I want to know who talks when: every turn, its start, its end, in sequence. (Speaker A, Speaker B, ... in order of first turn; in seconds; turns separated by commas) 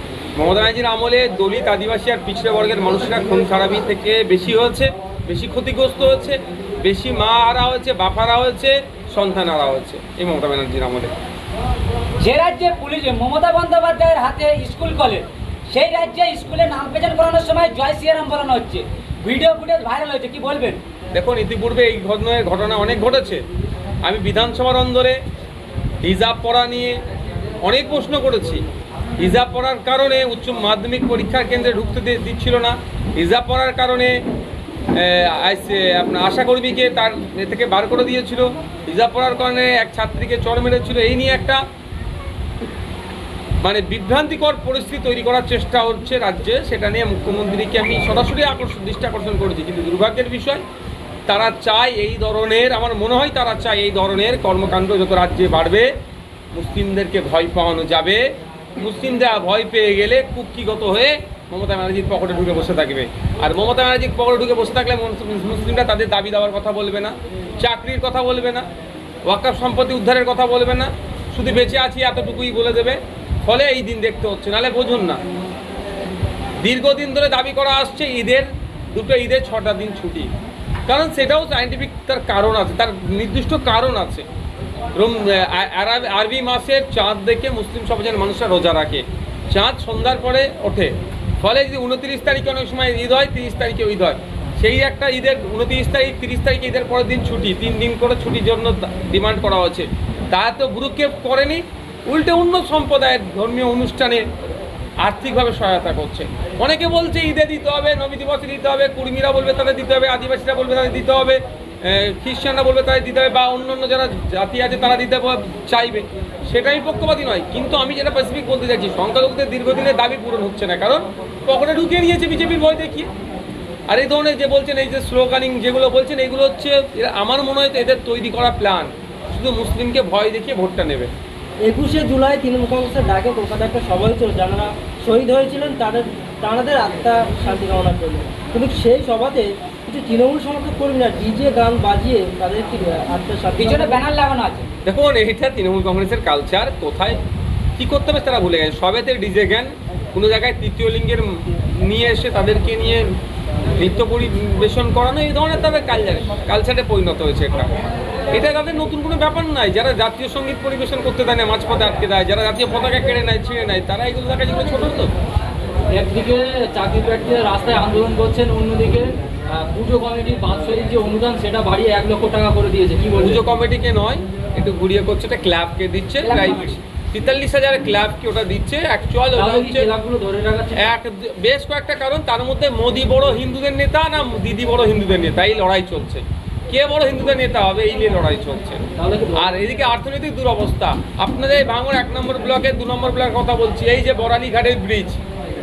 Speaker A: 0.3-11.1, Speaker B: 12.2-20.8, Speaker A: 21.1-23.4, Speaker A: 24.0-25.2, Speaker A: 26.0-27.0, Speaker A: 27.6-28.6, Speaker A: 29.2-34.1, Speaker A: 34.9-41.6, Speaker A: 43.6-50.6, Speaker A: 51.3-55.9, Speaker A: 56.5-58.2, Speaker A: 58.8-68.7, Speaker A: 69.3-75.2, Speaker A: 76.6-80.3, Speaker A: 80.8-84.3, Speaker A: 85.0-104.3, Speaker A: 105.0-123.1, Speaker A: 123.9-131.1, Speaker C: 131.6-144.0, Speaker B: 143.6-144.7, Speaker A: 144.8-147.2, Speaker A: 147.8-153.1, Speaker A: 153.8-157.8, Speaker A: 158.3-165.1, Speaker D: 165.9-173.4, Speaker A: 173.2-179.9, Speaker B: 176.2-176.8, Speaker D: 179.3-180.9, Speaker A: 180.8-188.8, Speaker D: 189.0-189.5, Speaker A: 189.3-195.2